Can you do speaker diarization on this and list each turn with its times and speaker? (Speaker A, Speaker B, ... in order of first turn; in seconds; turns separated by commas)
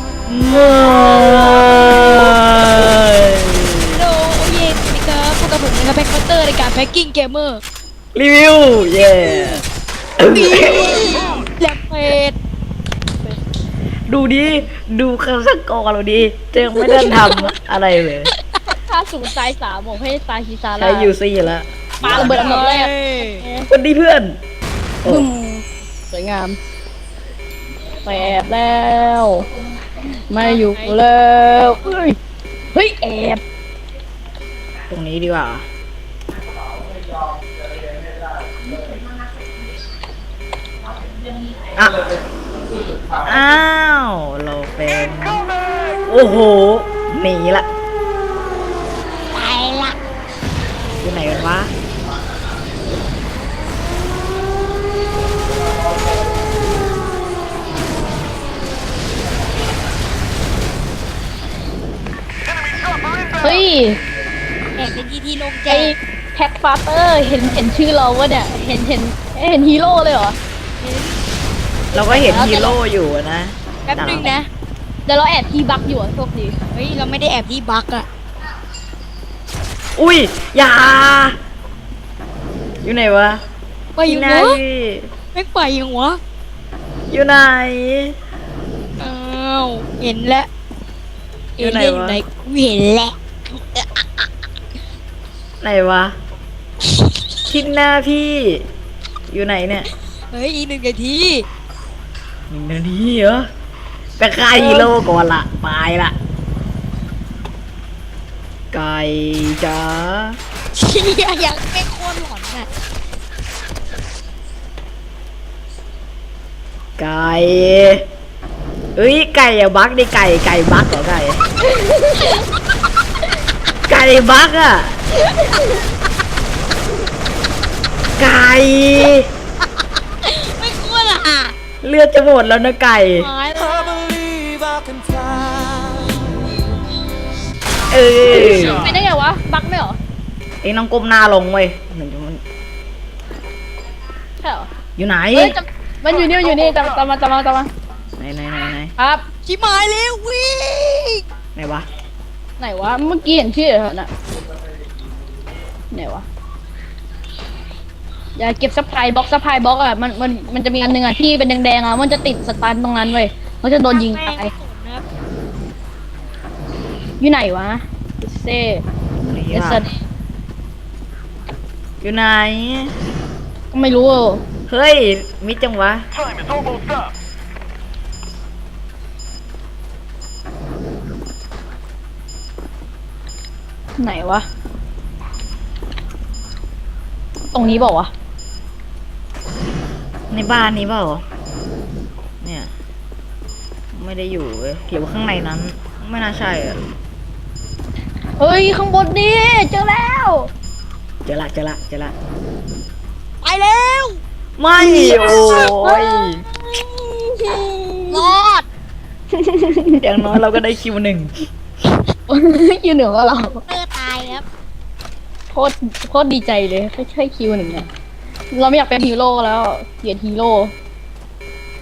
Speaker A: 0.3-4.0, Speaker B: 3.9-7.6, Speaker A: 8.1-9.6, Speaker B: 9.0-9.6, Speaker A: 10.2-11.0, Speaker B: 10.2-12.3, Speaker A: 14.1-18.3, Speaker B: 16.8-17.4, Speaker C: 18.9-21.1, Speaker A: 20.8-22.6, Speaker C: 22.0-23.7, Speaker B: 22.0-23.4, Speaker A: 23.7-24.4, Speaker A: 25.0-25.3, Speaker C: 25.1-26.6, Speaker C: 28.0-29.5, Speaker C: 30.3-32.2, Speaker B: 30.4-31.0, Speaker C: 32.7-33.4, Speaker A: 34.9-35.6, Speaker A: 41.8-42.1, Speaker A: 43.2-45.4, Speaker A: 46.1-47.6, Speaker B: 49.3-50.0, Speaker A: 51.0-51.7, Speaker C: 63.4-64.0, Speaker B: 64.8-65.9, Speaker C: 65.7-70.4, Speaker B: 70.8-71.2, Speaker A: 71.9-74.3, Speaker C: 71.9-72.8, Speaker B: 73.9-74.5, Speaker C: 75.1-76.5, Speaker B: 76.7-78.1, Speaker A: 80.0-81.4, Speaker A: 82.8-83.4, Speaker B: 84.0-84.6, Speaker A: 84.0-85.1, Speaker B: 85.3-86.2, Speaker A: 87.1-88.1, Speaker B: 89.0-90.5, Speaker B: 91.6-93.1, Speaker A: 91.6-92.2, Speaker A: 95.6-96.1, Speaker A: 97.5-98.6, Speaker A: 99.3-99.9, Speaker B: 100.3-101.4, Speaker A: 102.5-103.5, Speaker A: 104.2-106.1, Speaker C: 104.6-104.9, Speaker A: 108.7-110.4, Speaker B: 110.8-112.7, Speaker A: 117.0-118.0, Speaker A: 119.0-121.4, Speaker C: 121.7-122.4, Speaker A: 123.9-125.0, Speaker B: 125.5-125.8, Speaker A: 128.2-129.3, Speaker B: 129.8-131.6, Speaker A: 131.8-133.3, Speaker B: 133.2-136.1, Speaker A: 137.9-138.9, Speaker C: 138.3-140.0, Speaker A: 140.6-142.4, Speaker C: 144.4-144.7, Speaker A: 145.0-145.6, Speaker C: 145.3-147.7, Speaker A: 148.2-148.9, Speaker C: 149.0-149.2, Speaker B: 149.4-151.2, Speaker A: 151.6-151.8, Speaker C: 152.6-154.1, Speaker C: 155.9-156.2, Speaker C: 158.4-164.5, Speaker B: 163.9-165.0, Speaker C: 167.2-168.8, Speaker A: 169.3-169.8, Speaker C: 169.4-169.9, Speaker A: 172.0-172.9, Speaker C: 173.7-174.4, Speaker A: 174.7-176.0, Speaker C: 184.0-184.4, Speaker C: 187.5-188.1, Speaker A: 190.3-191.2, Speaker A: 192.4-192.7, Speaker A: 193.9-196.8, Speaker C: 198.4-200.5, Speaker A: 201.2-202.1, Speaker B: 203.4-204.2, Speaker A: 204.6-206.4, Speaker C: 204.8-208.3, Speaker B: 208.1-208.7, Speaker C: 209.3-210.0, Speaker A: 210.0-211.3, Speaker C: 212.3-213.6, Speaker B: 213.7-214.4, Speaker C: 215.5-217.9, Speaker C: 218.5-220.7